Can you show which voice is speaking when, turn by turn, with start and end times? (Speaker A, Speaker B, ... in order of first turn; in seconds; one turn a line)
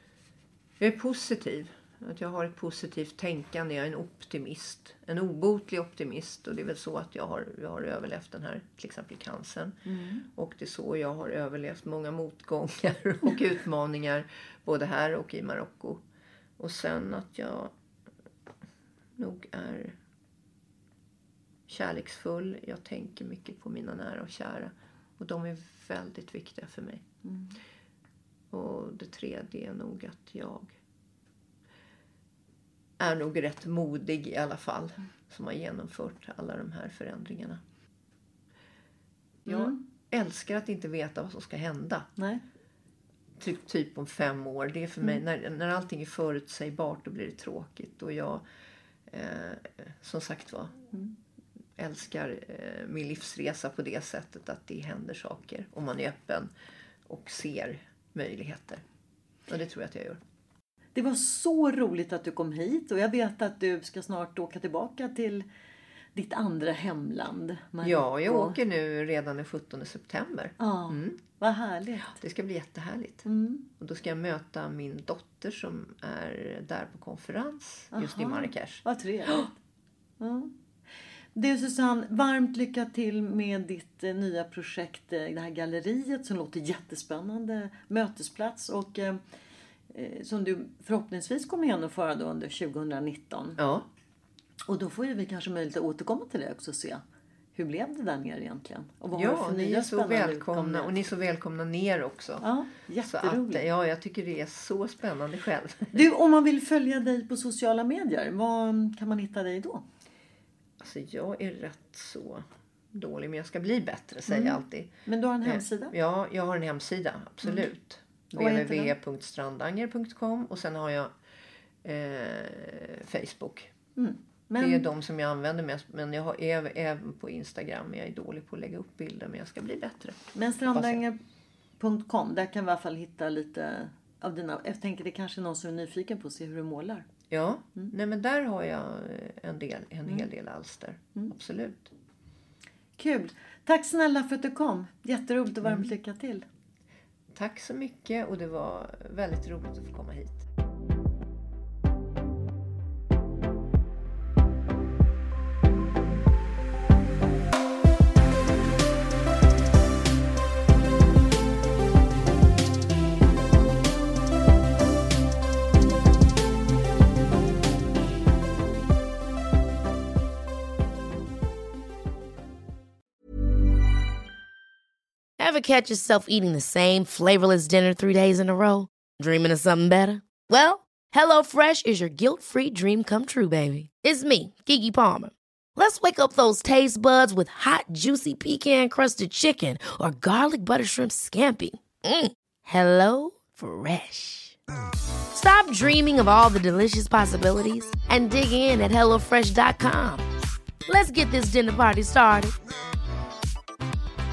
Speaker A: 0.8-9.8
Speaker B: 9.9-10.3
Speaker A: 10.3-16.0
Speaker A: 16.6-17.7
Speaker A: 19.2-19.9
Speaker A: 21.7-27.1
Speaker B: 27.3-27.5
Speaker A: 28.5-30.8
Speaker A: 33.0-37.6
Speaker B: 39.5-39.8
Speaker A: 39.5-42.1
Speaker B: 42.2-42.4
Speaker A: 43.4-48.4
Speaker A: 49.1-50.8
Speaker A: 51.8-56.5
Speaker A: 57.0-58.8
Speaker A: 59.5-60.2
Speaker B: 60.9-65.5
Speaker B: 66.1-68.6
Speaker A: 67.8-71.2
Speaker B: 70.6-72.2
Speaker A: 72.2-73.3
Speaker B: 73.3-73.7
Speaker A: 73.8-78.8
Speaker B: 77.9-79.5
Speaker B: 80.2-80.5
Speaker B: 81.3-89.2
Speaker B: 89.9-93.6
Speaker A: 93.6-93.9
Speaker B: 94.7-97.0
Speaker B: 97.5-100.9
Speaker A: 99.1-102.4
Speaker B: 102.4-103.7
Speaker A: 103.0-106.0
Speaker B: 105.9-109.8
Speaker A: 110.8-114.9
Speaker B: 114.3-115.9
Speaker A: 115.4-121.1
Speaker B: 118.3-118.9
Speaker A: 121.8-123.7
Speaker B: 124.0-124.9
Speaker A: 124.6-131.0
Speaker B: 130.3-131.2
Speaker B: 131.8-137.1
Speaker A: 137.3-141.9
Speaker B: 143.0-146.4
Speaker A: 145.6-145.9
Speaker A: 147.3-150.5
Speaker C: 175.4-194.6
Speaker C: 195.3-200.2
Speaker C: 200.9-202.5